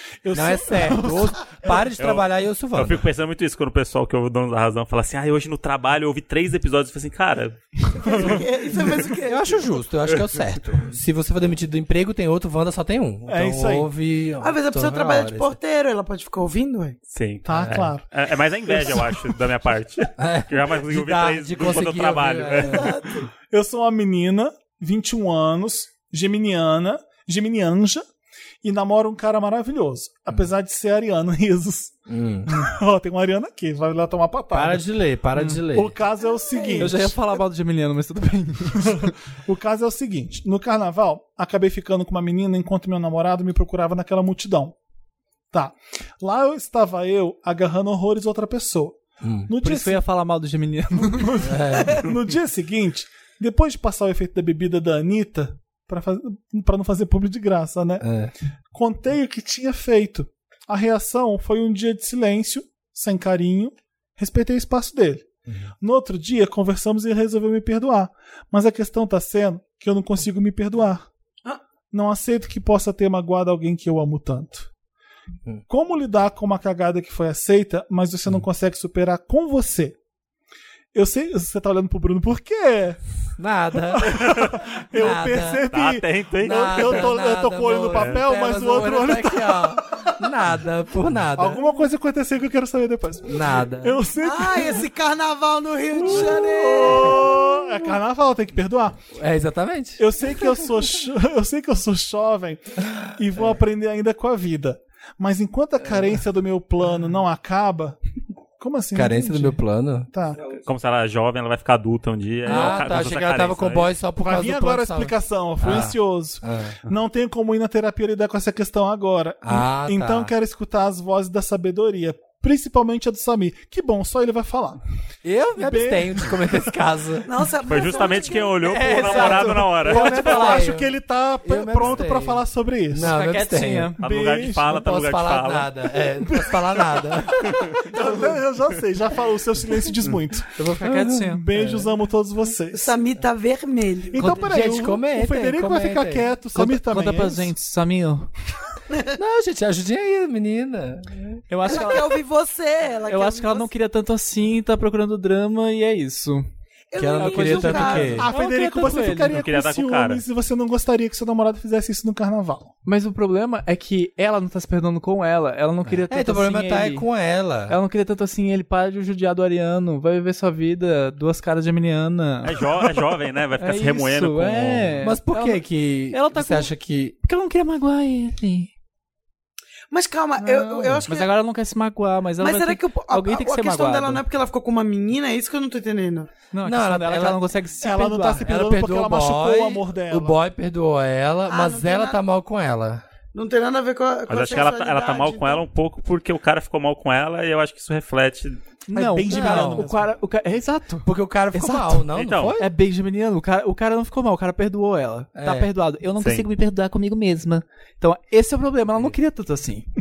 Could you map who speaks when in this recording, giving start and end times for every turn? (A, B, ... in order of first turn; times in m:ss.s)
0:00.2-0:01.8 A
0:00.3-0:03.0 B
0:02.0-0:08.4 C
0:07.9-0:09.6 D
0:09.2-0:15.6 B
0:13.3-0:13.9 A
0:14.4-0:17.0 D
0:17.1-0:22.9 C
0:17.4-0:18.0 A
0:17.6-0:17.9 B
0:18.7-0:19.3 A
0:20.2-0:23.0 B
0:22.6-0:23.3 D
0:23.5-0:28.0 A
0:28.6-0:31.9 A
0:32.1-0:32.6 B
0:32.5-0:34.8 A
0:34.5-0:35.9 B
0:35.4-0:35.6 E
0:35.7-0:37.4 A
0:36.8-0:39.1 E
0:38.8-0:44.8 A
0:45.5-0:50.0 A
0:49.2-0:49.5 B
0:49.6-0:51.4 E
0:51.1-0:58.0 A
0:51.4-0:52.1 B
0:58.0-0:58.3 B
0:58.7-1:05.2 A
1:05.8-1:11.1 A
1:11.9-1:14.7 A
1:15.7-1:20.0 A
1:20.9-1:23.0 A
1:23.4-1:25.7 B
1:23.9-1:30.1 A
1:25.7-1:27.1 C
1:26.4-1:31.6 B
1:27.9-1:28.2 C
1:31.4-1:34.8 A
1:33.2-1:34.0 B
1:34.2-1:37.3 D
1:35.9-1:39.0 A
1:39.2-1:40.0 B
1:40.0-1:48.0 A
1:48.6-1:49.6 A
1:48.9-1:50.1 B
1:50.1-1:50.4 A
1:50.5-1:53.9 C
1:52.4-1:56.8 B
1:54.2-2:04.8 A
1:59.4-2:00.3 B
2:05.2-2:07.3 B
2:05.6-2:06.6 A
2:07.2-2:08.7 D
2:07.6-2:10.6 C
2:08.6-2:09.9 E
2:08.7-2:13.9 B
2:09.8-2:13.2 A
2:13.0-2:14.0 E
2:14.0-2:14.8 A
2:14.0-2:15.7 C
2:14.6-2:17.8 B
2:16.2-2:20.5 A
2:17.4-2:17.8 C
2:20.6-2:21.9 E
2:20.6-2:21.2 B
2:21.3-2:23.0 A
2:22.7-2:24.4 D
2:24.1-2:27.5 A
2:24.2-2:24.8 E
2:24.2-2:26.3 B
2:26.5-2:28.3 E
2:29.1-2:31.8 B
2:31.5-2:32.2 E
2:31.6-2:33.7 D
2:33.1-2:36.5 E
2:36.9-2:38.3 D
2:37.0-2:38.3 B
2:37.1-2:39.4 E
2:38.2-2:42.7 A
2:39.1-2:40.2 C
2:42.8-2:47.0 E
2:45.9-2:47.8 B
2:47.7-2:52.6 E
2:52.4-2:54.8 C
2:53.6-2:56.7 E
2:54.8-2:57.2 B
2:57.2-2:58.7 E
2:59.9-3:01.3 D
3:00.4-3:04.2 E
3:02.4-3:06.3 D
3:06.5-3:08.5 E
3:06.6-3:07.4 B
3:07.8-3:10.4 A
3:08.3-3:13.0 B
3:11.5-3:12.2 D
3:13.3-3:15.6 D
3:14.3-3:18.6 C
3:18.9-3:20.1 A
3:18.9-3:29.8 E
3:19.2-3:19.9 B
3:21.0-3:22.7 B
3:22.1-3:22.6 C
3:25.3-3:25.7 B
3:26.2-3:26.4 C